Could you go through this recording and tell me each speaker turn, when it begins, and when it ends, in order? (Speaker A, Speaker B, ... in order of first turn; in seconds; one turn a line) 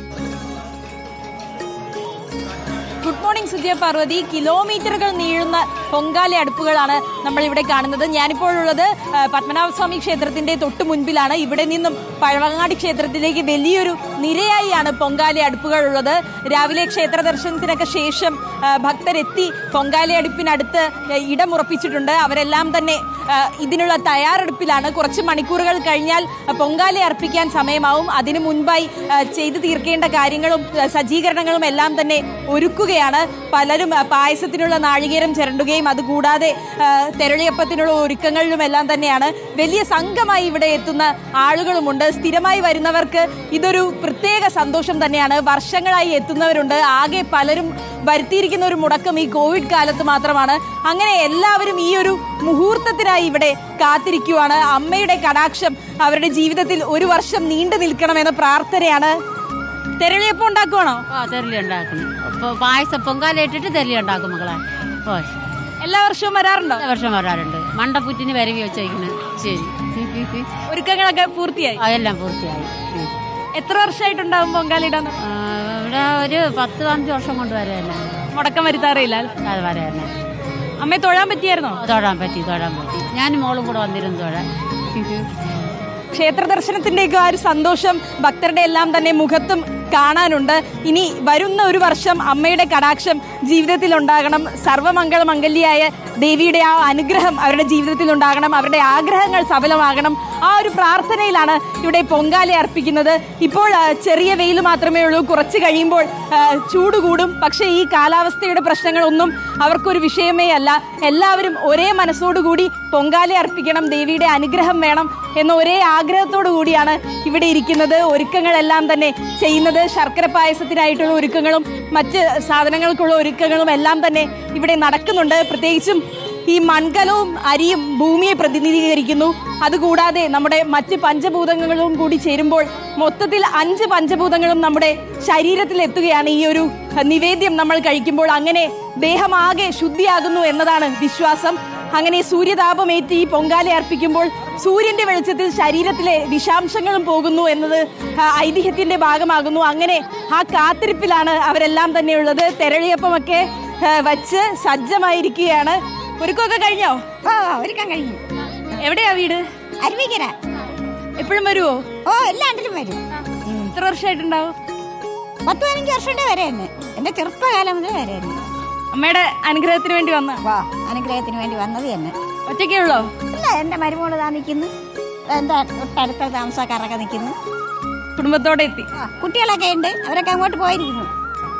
Speaker A: 3.0-59.2
Speaker A: 60.0-61.0
Speaker B: 61.1-65.3
Speaker A: 65.8-66.8
Speaker B: 66.8-70.5
Speaker A: 70.7-71.8
Speaker B: 71.8-73.1
Speaker A: 73.6-75.2
Speaker B: 75.2-78.1
Speaker A: 78.3-79.3
Speaker B: 79.4-80.1
Speaker A: 80.8-81.8
Speaker B: 81.8-85.3
Speaker A: 86.1-157.0
Speaker C: 157.2-158.2
Speaker A: 158.8-159.4
Speaker C: 159.8-160.3
Speaker A: 161.2-161.8
Speaker C: 162.1-163.7
Speaker A: 163.8-164.6
Speaker C: 165.5-168.4
Speaker A: 168.9-170.4
Speaker C: 170.4-172.1
Speaker A: 172.5-173.1
Speaker C: 173.3-174.7
Speaker C: 175.3-177.4
Speaker A: 178.2-178.9
Speaker C: 179.0-181.1